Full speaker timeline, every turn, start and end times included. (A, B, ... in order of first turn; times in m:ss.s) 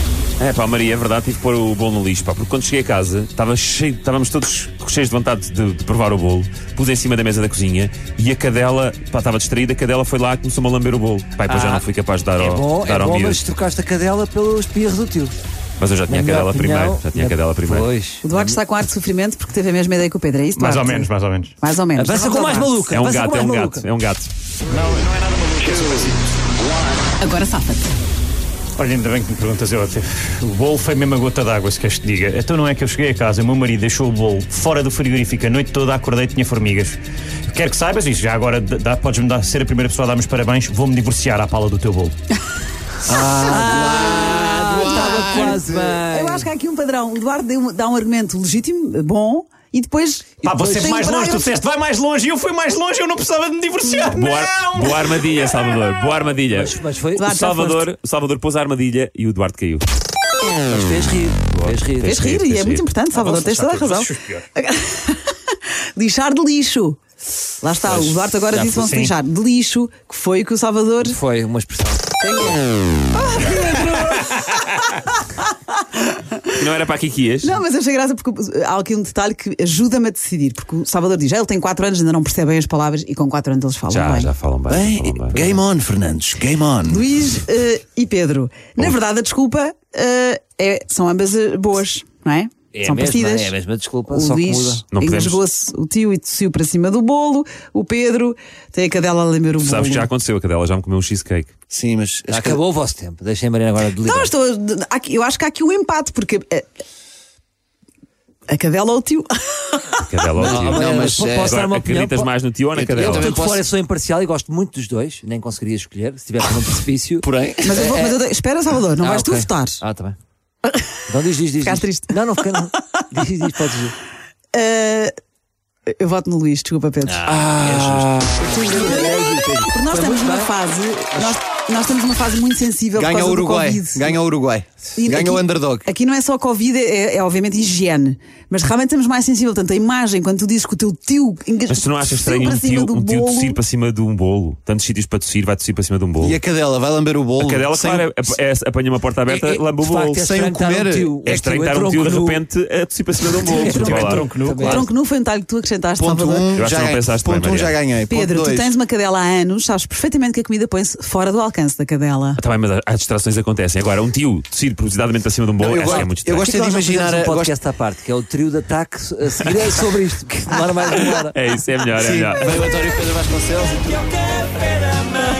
0:00.4-0:13.4 A
0:11.5-0:11.8 B
0:12.4-0:15.4 B
0:15.8-0:17.9 A
0:16.1-0:18.6 B
0:18.2-0:22.7 C
0:20.5-0:21.5 D
0:21.9-0:23.8 B
0:22.9-0:24.3 A
0:24.6-0:26.4 D
0:27.2-0:27.9 C
0:28.8-0:42.1 D
0:43.0-0:45.9 E
0:43.1-0:46.5 B
0:43.4-0:51.6 C
0:50.4-0:55.8 D
0:50.4-0:51.0 B
0:54.1-0:59.8 A
0:56.5-0:57.3 B
0:57.2-0:57.8 C
1:00.5-1:02.2 B
1:01.1-1:02.9 A
1:02.0-1:05.3 C
1:03.1-1:04.4 D
1:06.0-1:07.0 C
1:07.6-1:11.2 C
1:07.9-1:08.8 B
1:08.7-1:09.1 D
1:11.0-1:12.1 B
1:12.2-1:16.4 C
1:16.5-1:17.6 A
1:17.4-1:24.3 C
1:23.9-1:25.4 A
1:24.7-1:27.0 E
1:26.8-1:40.1 C
1:32.7-1:34.8 B
1:34.9-1:35.4 A
1:39.6-1:41.5 A
1:41.7-1:42.6 E
1:42.3-1:44.3 B
1:44.0-1:46.7 C
1:48.5-1:50.1 C
1:50.0-1:50.9 A
1:50.4-1:51.6 E
1:50.4-1:52.3 B
1:51.4-1:53.4 A
1:52.7-1:53.6 E
1:52.9-1:58.2 B
1:57.2-1:57.8 E
1:57.6-1:59.8 C
1:59.0-2:00.2 B
2:01.1-2:03.9 B
2:01.6-2:02.2 C
2:04.5-2:05.1 C
2:05.9-2:07.2 C
2:07.0-2:10.5 B
2:07.2-2:08.6 E
2:08.7-2:14.2 C
2:11.1-2:11.4 B
2:12.9-2:15.9 E
2:15.0-2:23.6 C
2:21.7-2:26.4 A
2:26.2-2:28.3 E
2:27.4-2:30.2 A
2:29.2-2:32.4 B
2:30.2-2:31.5 E
2:31.2-2:34.8 A
2:33.4-2:36.5 C
2:33.4-2:34.9 B
2:33.5-2:34.8 D
2:36.0-2:38.7 E
2:36.5-2:37.8 A
2:38.1-2:42.4 C
2:42.4-2:46.5 A
2:45.6-2:47.5 E
2:45.9-2:51.3 B
2:51.3-2:52.7 A
2:52.0-2:54.1 E